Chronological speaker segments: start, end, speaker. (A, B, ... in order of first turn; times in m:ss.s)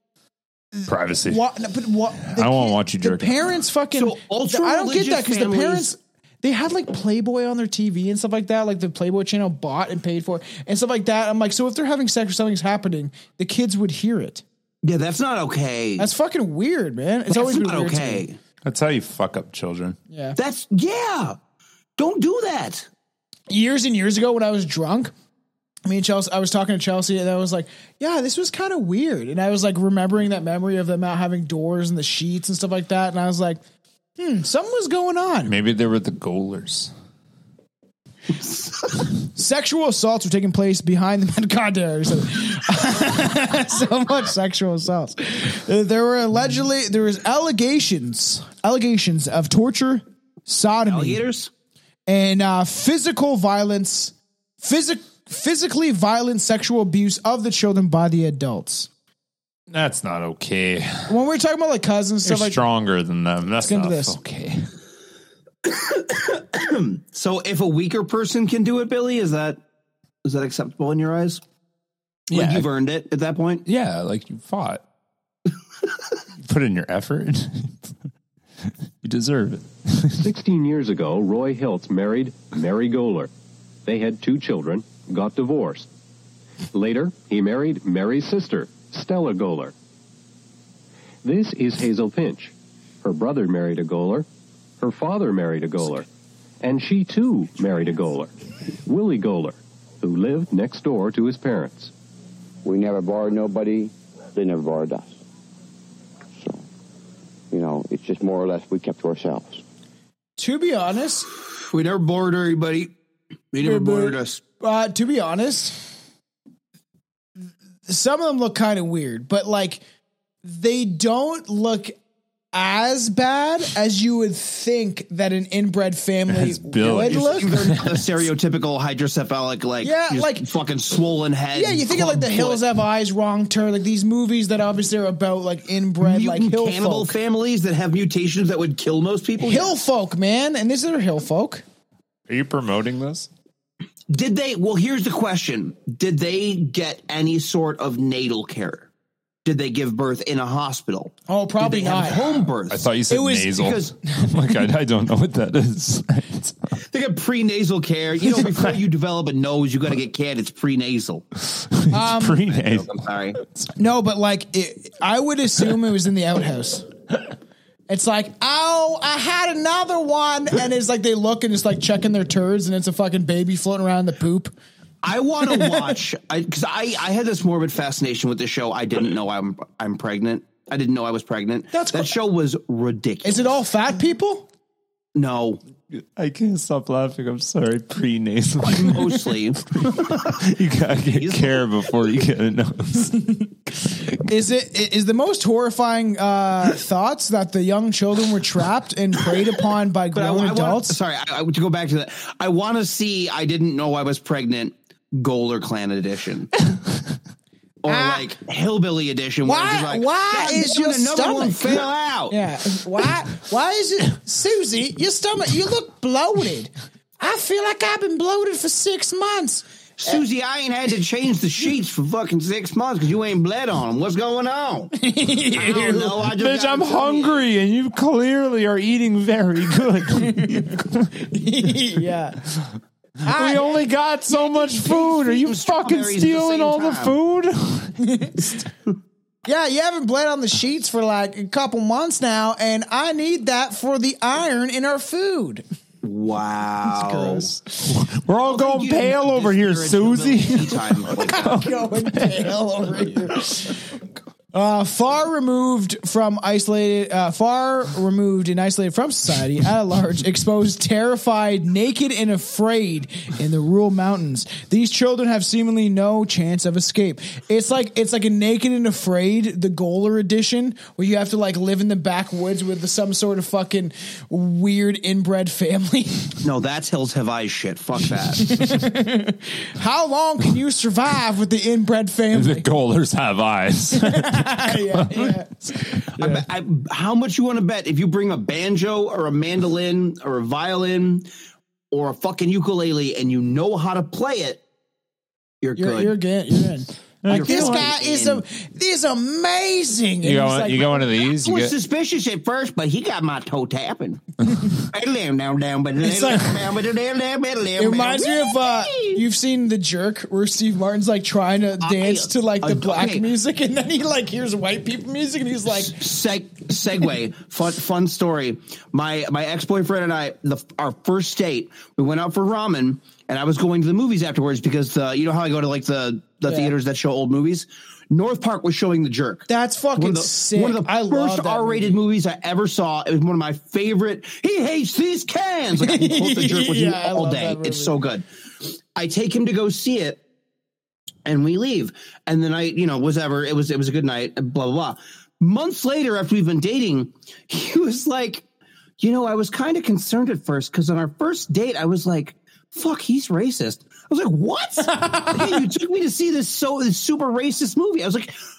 0:00.8-0:14.4 A
0:00.9-0:01.4 B
0:02.2-0:03.4 B
0:04.0-0:05.9 C
0:14.8-0:16.1 C
0:16.0-0:18.2 A
0:17.3-0:18.4 C
0:18.6-0:20.0 B
0:20.1-0:20.4 A
0:20.4-0:21.4 C
0:22.0-0:22.9 C
0:23.5-0:25.1 A
0:25.9-0:33.6 A
0:34.2-0:35.5 A
0:35.4-0:36.9 B
0:39.4-0:51.2 A
0:50.9-0:51.5 C
0:52.1-0:58.9 A
0:59.7-1:01.1 B
1:01.1-1:02.6 A
1:02.2-1:04.7 B
1:03.6-1:04.2 A
1:05.7-1:09.6 C
1:10.2-1:11.4 C
1:12.3-1:13.6 C
1:12.3-1:12.7 B
1:13.7-1:14.8 B
1:16.4-1:17.9 B
1:19.0-1:20.3 B
1:20.2-1:23.3 D
1:23.8-1:25.9 D
1:26.7-1:29.7 D
1:31.2-1:34.3 D
1:34.8-1:36.1 D
1:36.6-1:38.3 D
1:38.9-1:41.9 D
1:42.6-1:45.2 E
1:47.5-1:49.6 E
1:50.4-1:51.3 A
1:51.6-1:52.9 C
1:53.5-1:54.4 C
1:53.6-1:55.9 A
1:57.9-1:59.8 A
2:00.4-2:02.0 A
2:02.5-2:07.5 A
2:06.3-2:08.1 B
2:07.0-2:12.6 C
2:09.8-2:10.4 A
2:11.5-2:17.1 A
2:16.0-2:19.8 C
2:19.4-2:21.6 A
2:22.3-2:23.3 B
2:24.1-2:28.9 C
2:29.4-2:32.9 C
2:31.3-2:32.5 A
2:32.7-2:36.8 B
2:33.1-2:33.6 A
2:33.5-2:33.9 C
2:36.9-2:41.2 C
2:38.3-2:38.6 B
2:41.5-2:43.7 B
2:41.9-2:42.4 A
2:42.5-2:43.4 C
2:43.8-2:46.9 A
2:47.9-2:54.5 A
2:55.0-3:03.5 C
2:55.5-2:56.0 A
3:01.7-3:02.1 A
3:03.2-3:04.5 A
3:05.2-3:05.6 C
3:06.2-3:13.2 B
3:08.6-3:10.4 C
3:11.1-3:11.6 C
3:14.2-3:21.0 A
3:20.1-3:26.5 C
3:27.8-3:32.4 C
3:27.9-3:28.3 A
3:29.4-3:40.2 A
3:40.0-3:44.9 C
3:45.0-3:46.2 A
3:45.5-3:47.4 C
3:46.2-3:51.1 B
3:50.2-3:50.7 A
3:51.3-3:52.4 A
3:53.2-3:53.9 A
3:53.3-3:58.0 B
3:54.5-3:57.2 C
3:58.0-3:58.4 A
3:59.5-4:05.6 A
4:06.0-4:07.5 C
4:06.8-4:07.8 A
4:07.9-4:12.6 B
4:08.4-4:11.6 C
4:11.3-4:13.8 A
4:14.5-4:36.4 A
4:36.4-4:38.5 C
4:38.4-4:42.7 A
4:42.3-4:45.4 B
4:44.0-4:46.4 A
4:46.2-4:51.3 C
4:51.9-4:54.6 C
4:55.6-4:56.2 C
4:55.8-5:01.1 A
4:57.2-4:57.9 B
4:57.3-4:58.4 C
5:00.2-5:01.7 B
5:01.4-5:04.2 C
5:04.8-5:09.2 C
5:06.0-5:06.5 A
5:07.8-5:16.0 A
5:11.8-5:13.3 C
5:15.8-5:38.2 C
5:26.5-5:26.7 A
5:29.5-5:32.0 A
5:35.8-5:38.0 A
5:39.0-5:40.2 C
5:41.3-5:48.4 C
5:49.0-5:58.4 C
5:54.8-5:55.6 A